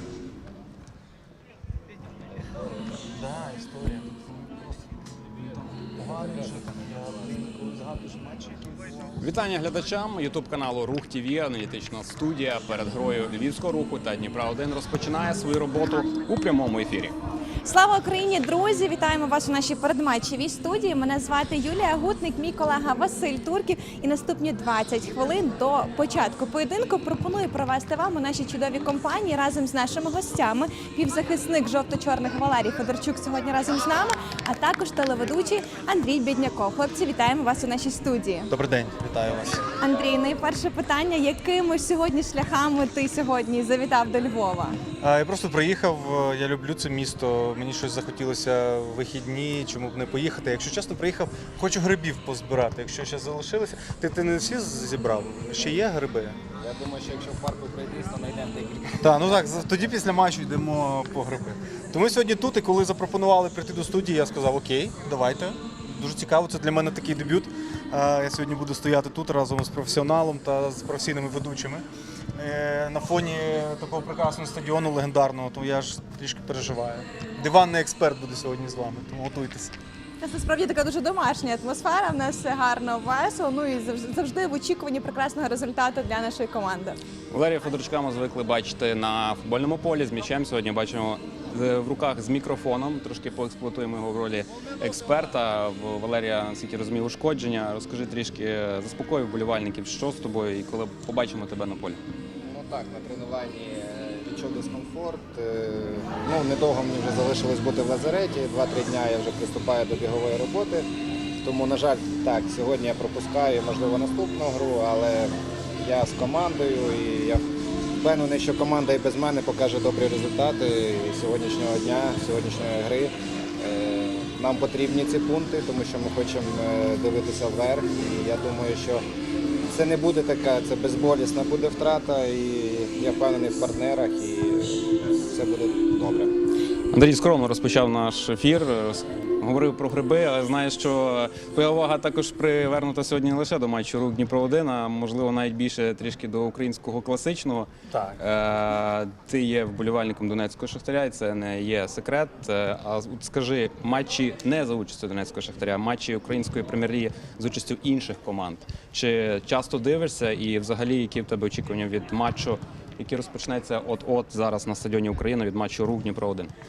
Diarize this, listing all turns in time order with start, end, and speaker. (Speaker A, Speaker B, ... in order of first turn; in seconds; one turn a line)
Speaker A: 3.1-9.2
Speaker B: 9.2-17.2
Speaker C: 17.6-38.5
Speaker A: 38.5-39.6
Speaker C: 39.8-44.8
Speaker A: 45.0-56.4
Speaker D: 56.6-59.6
Speaker A: 59.0-79.8
Speaker C: 80.2-87.0
Speaker B: 87.3-102.0
Speaker D: 102.4-110.9
Speaker D: 111.4-117.4
Speaker D: 118.0-129.1
Speaker D: 129.7-136.3
Speaker B: 136.9-166.5
Speaker A: 147.9-148.2